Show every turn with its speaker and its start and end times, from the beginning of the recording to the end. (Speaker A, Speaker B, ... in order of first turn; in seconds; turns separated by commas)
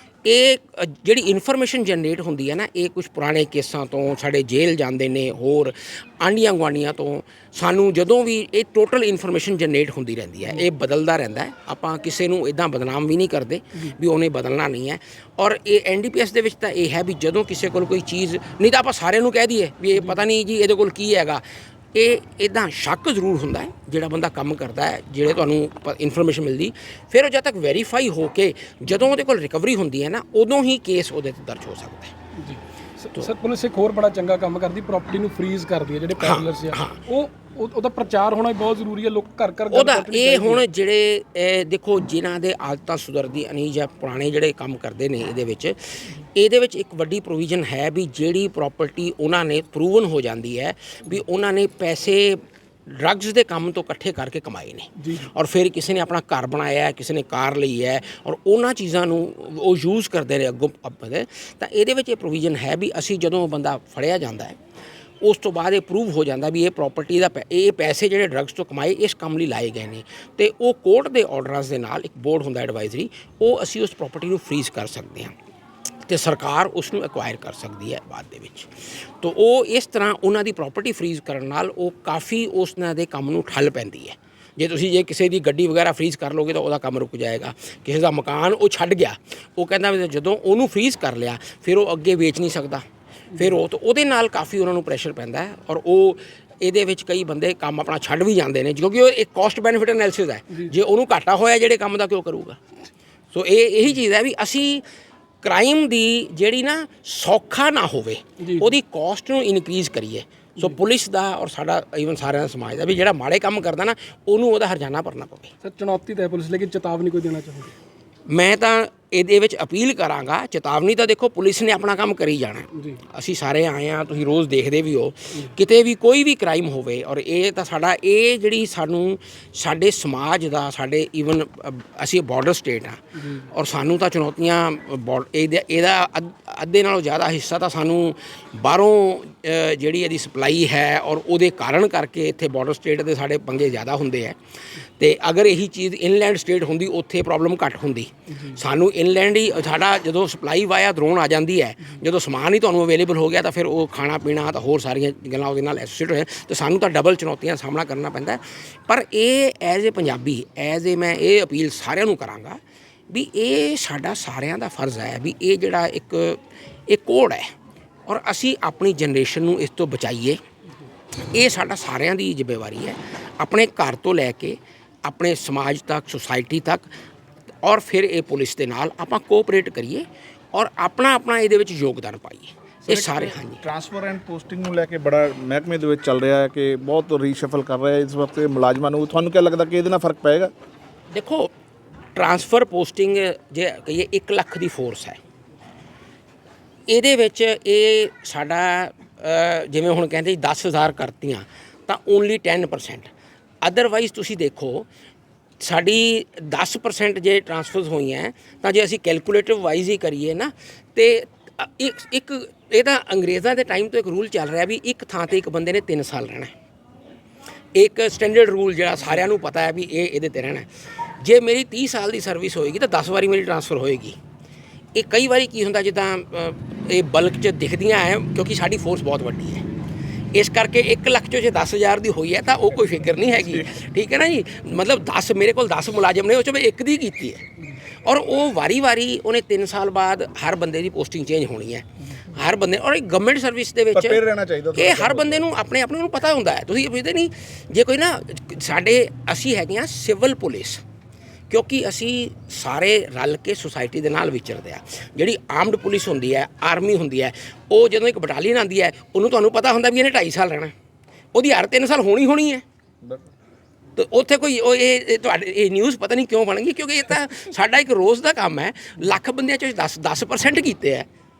Speaker A: 0.2-21.4, Speaker A: 21.9-32.1, Speaker B: 32.4-40.6, Speaker A: 36.2-37.0, Speaker A: 39.7-64.6, Speaker B: 55.0-55.3, Speaker A: 65.2-75.3, Speaker A: 76.1-92.8, Speaker A: 93.4-102.6, Speaker A: 103.3-104.8, Speaker A: 105.4-115.5, Speaker B: 108.4-108.7, Speaker B: 115.6-117.7, Speaker A: 118.3-144.4, Speaker A: 145.0-167.5, Speaker A: 168.1-170.4, Speaker A: 171.3-176.9, Speaker A: 177.6-183.7, Speaker C: 182.9-190.5, Speaker A: 191.1-191.5, Speaker A: 192.2-195.2, Speaker A: 196.9-203.1, Speaker A: 203.6-204.9, Speaker A: 205.6-216.5, Speaker A: 217.8-220.7, Speaker A: 221.2-224.2, Speaker A: 224.9-229.7, Speaker A: 230.3-237.5, Speaker A: 238.0-250.8, Speaker C: 243.9-245.5, Speaker A: 251.5-260.7, Speaker A: 261.3-262.6, Speaker A: 264.0-271.1